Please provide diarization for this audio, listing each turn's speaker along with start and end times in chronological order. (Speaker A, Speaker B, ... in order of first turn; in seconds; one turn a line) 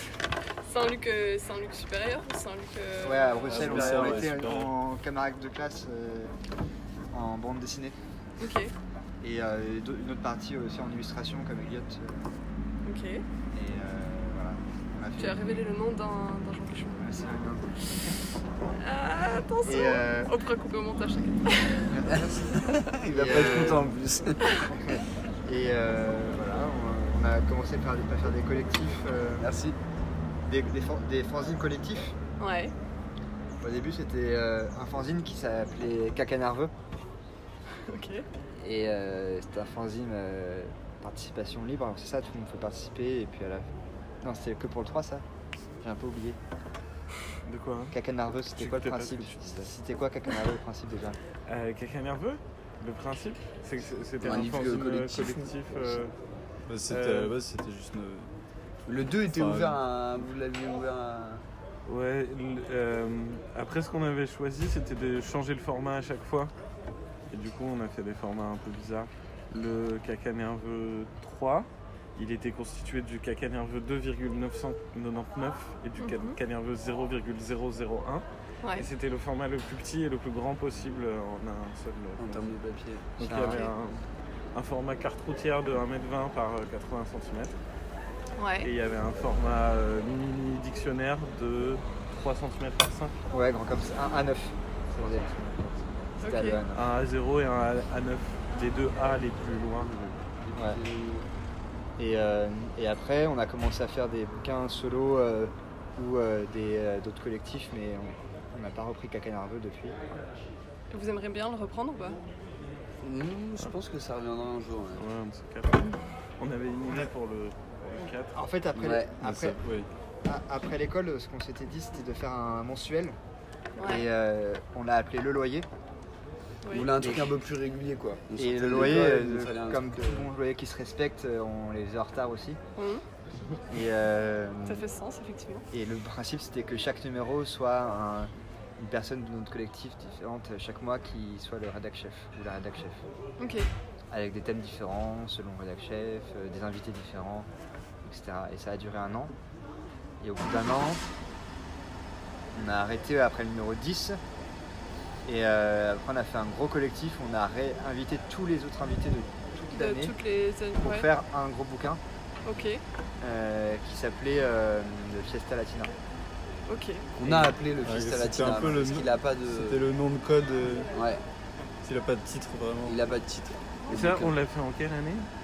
Speaker A: 0.7-4.1
Speaker B: 3.0-6.3
Speaker C: 3.4-4.7
Speaker B: 7.1-8.0
Speaker A: 8.4-8.7
Speaker B: 9.2-12.2
Speaker A: 12.8-13.2
Speaker B: 13.5-15.6
Speaker A: 15.2-17.1
Speaker B: 17.0-18.2
Speaker A: 18.8-21.9
Speaker B: 19.6-20.3
Speaker B: 21.9-22.5
Speaker D: 22.1-24.5
Speaker B: 23.1-23.9
Speaker B: 24.7-29.5
Speaker D: 29.4-29.8
Speaker B: 30.4-32.2
Speaker A: 32.4-32.7
Speaker B: 33.6-36.7
Speaker A: 37.9-38.2
Speaker B: 38.6-43.7
Speaker B: 44.2-45.2
Speaker B: 45.8-46.4
Speaker E: 47.5-48.0
Speaker B: 47.9-51.2
Speaker E: 48.5-49.7
Speaker E: 51.5-56.1
Speaker D: 54.2-56.0
Speaker C: 56.7-58.3
Speaker E: 56.9-57.3
Speaker D: 58.9-61.4
Speaker C: 59.2-59.8
Speaker E: 61.9-66.5
Speaker E: 67.3-78.2
Speaker A: 76.0-76.3
Speaker E: 78.8-82.5
Speaker D: 82.2-83.1
Speaker E: 83.2-84.0
Speaker B: 83.2-83.7
Speaker E: 84.5-87.5
Speaker A: 88.4-88.7
Speaker E: 88.6-93.2
Speaker B: 93.3-96.9
Speaker A: 96.2-96.6
Speaker E: 96.7-100.2
Speaker D: 100.4-101.3
Speaker B: 100.5-100.8
Speaker B: 102.0-110.0
Speaker A: 110.9-112.2
Speaker D: 113.0-115.0
Speaker E: 115.0-118.3
Speaker B: 118.3-119.6
Speaker D: 118.8-119.2
Speaker C: 119.2-119.9
Speaker B: 120.2-123.2
Speaker A: 123.8-124.0
Speaker B: 123.8-125.7
Speaker A: 126.6-126.9
Speaker D: 126.7-130.3
Speaker B: 127.0-127.3
Speaker B: 128.4-132.6
Speaker A: 132.8-133.0
Speaker B: 133.7-134.8
Speaker A: 134.7-135.7
Speaker B: 135.7-143.0
Speaker A: 143.4-143.7
Speaker B: 144.1-147.5
Speaker B: 148.0-149.3
Speaker B: 150.2-151.0
Speaker B: 152.5-154.2
Speaker B: 155.2-160.2
Speaker A: 159.7-161.1
Speaker B: 160.8-162.0
Speaker A: 162.4-162.8
Speaker B: 163.2-165.9
Speaker A: 166.7-167.0
Speaker D: 167.2-169.8
Speaker C: 167.2-170.9
Speaker D: 170.9-171.2
Speaker C: 171.8-173.0
Speaker D: 172.8-174.3
Speaker E: 173.9-175.3